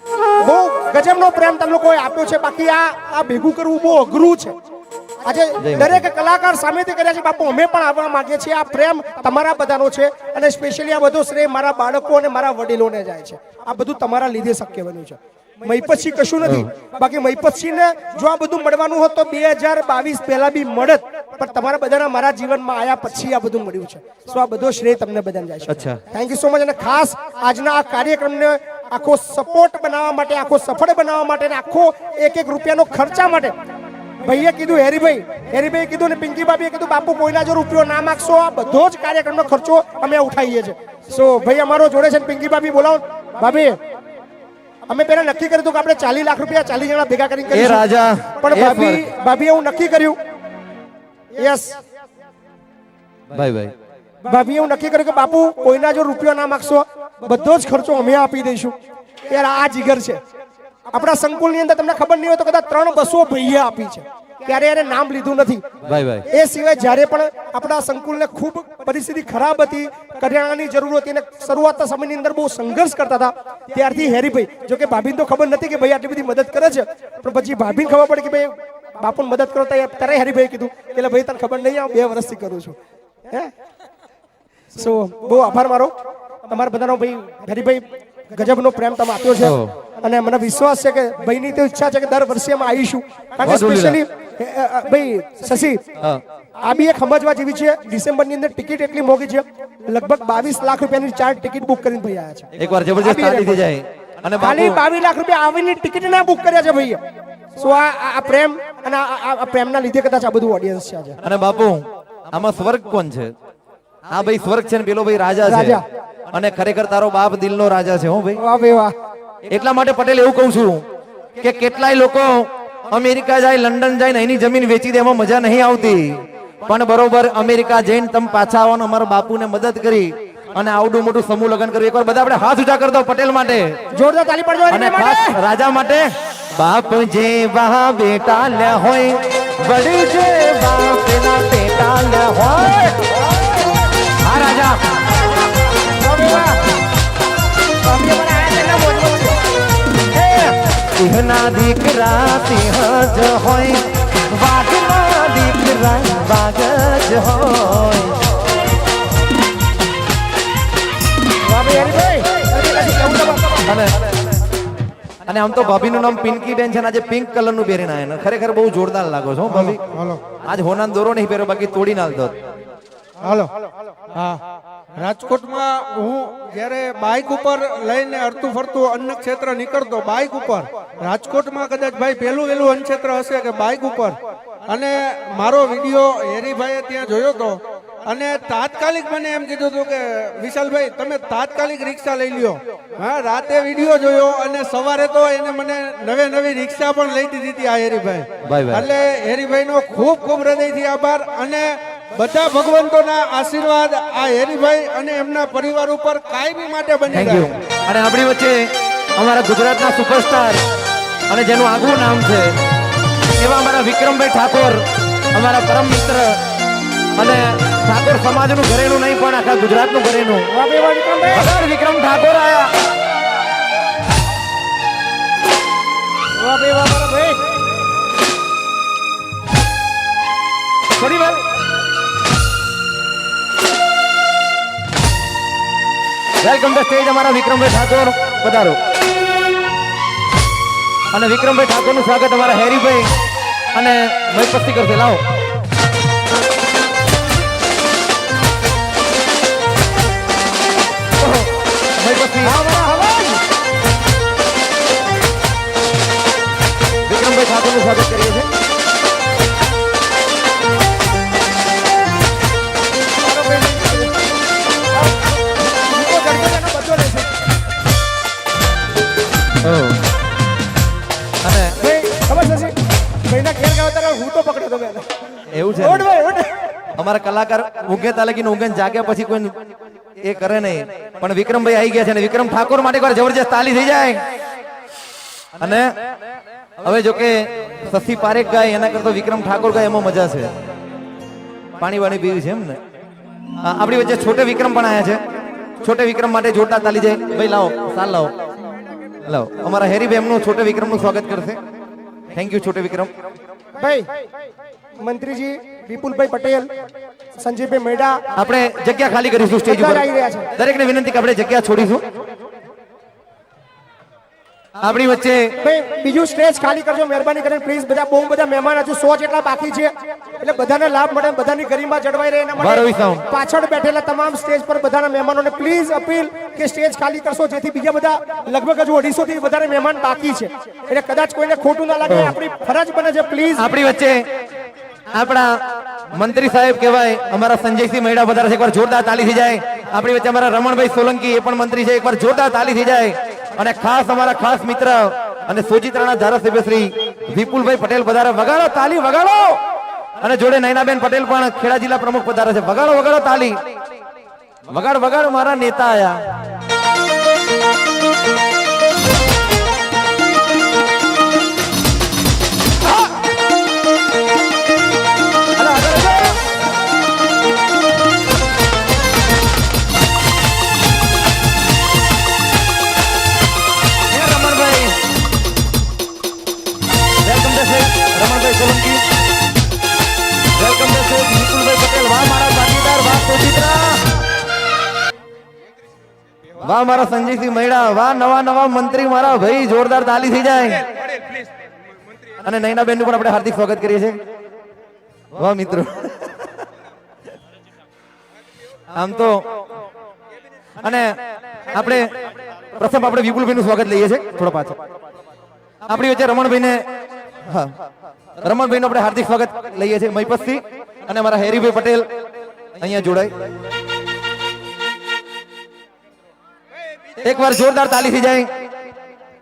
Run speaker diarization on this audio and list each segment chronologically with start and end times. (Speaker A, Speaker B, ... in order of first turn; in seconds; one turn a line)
Speaker A: 0.4-4.5
Speaker A: 5.2-33.5
Speaker B: 5.6-6.0
Speaker B: 16.4-16.7
Speaker B: 25.7-26.0
Speaker A: 34.2-43.8
Speaker A: 44.9-47.8
Speaker B: 47.5-49.0
Speaker A: 48.4-50.2
Speaker A: 51.4-51.8
Speaker B: 53.3-53.7
Speaker A: 54.2-58.8
Speaker A: 59.3-60.2
Speaker A: 60.9-65.7
Speaker B: 65.8-66.3
Speaker A: 66.3-82.8
Speaker A: 84.8-85.9
Speaker A: 86.5-95.8
Speaker B: 89.4-89.8
Speaker B: 93.4-94.0
Speaker A: 96.6-103.6
Speaker B: 102.6-104.8
Speaker A: 104.4-107.0
Speaker A: 107.6-111.2
Speaker B: 111.2-113.3
Speaker B: 114.1-118.4
Speaker A: 115.4-115.8
Speaker A: 118.4-118.9
Speaker B: 119.5-120.8
Speaker B: 121.4-133.8
Speaker A: 133.9-135.4
Speaker B: 134.7-143.0
Speaker B: 144.2-144.8
Speaker A: 145.8-146.7
Speaker A: 147.8-149.4
Speaker A: 150.1-150.6
Speaker B: 150.9-158.2
Speaker A: 161.4-163.6
Speaker B: 163.6-164.1
Speaker B: 165.3-169.8
Speaker C: 169.5-170.2
Speaker B: 170.4-172.4
Speaker C: 173.2-174.4
Speaker C: 175.0-207.6
Speaker B: 198.4-198.9
Speaker B: 207.1-210.6
Speaker B: 211.3-212.6
Speaker B: 213.4-214.8
Speaker B: 215.3-216.4
Speaker B: 217.2-220.5
Speaker A: 220.5-221.5
Speaker B: 221.2-222.7
Speaker A: 226.4-227.5
Speaker B: 231.0-231.4
Speaker B: 236.4-238.8
Speaker B: 241.1-243.1
Speaker B: 243.7-245.2
Speaker B: 251.2-252.5
Speaker A: 252.4-253.4
Speaker B: 257.1-258.5
Speaker A: 263.2-264.2
Speaker A: 265.9-267.3
Speaker B: 269.6-270.0
Speaker B: 271.4-271.8
Speaker A: 271.8-272.8
Speaker A: 273.3-275.1
Speaker B: 275.5-276.1
Speaker A: 275.7-276.7
Speaker B: 277.0-279.6
Speaker B: 280.2-284.2
Speaker B: 285.6-286.0
Speaker B: 286.8-290.5
Speaker B: 291.8-292.8
Speaker B: 293.6-295.2
Speaker B: 295.8-298.3
Speaker B: 299.2-301.6
Speaker B: 302.3-303.1
Speaker A: 303.8-304.1
Speaker A: 305.0-306.7
Speaker A: 307.4-308.2
Speaker B: 308.3-312.0
Speaker A: 309.7-310.5
Speaker B: 314.8-315.6
Speaker A: 315.6-333.7
Speaker B: 322.6-323.3
Speaker B: 332.1-332.4
Speaker B: 333.6-334.3
Speaker B: 335.1-349.6
Speaker B: 350.2-353.6
Speaker B: 354.7-356.4
Speaker B: 365.6-366.4
Speaker B: 374.1-375.0
Speaker B: 377.2-379.0
Speaker B: 380.6-384.2
Speaker B: 386.6-390.9
Speaker B: 392.4-394.2
Speaker B: 395.3-396.5
Speaker B: 398.9-399.6
Speaker B: 400.8-402.2
Speaker B: 402.8-404.8
Speaker B: 405.9-406.9
Speaker B: 407.4-407.8
Speaker B: 408.4-412.1
Speaker B: 412.8-413.4
Speaker B: 417.2-418.5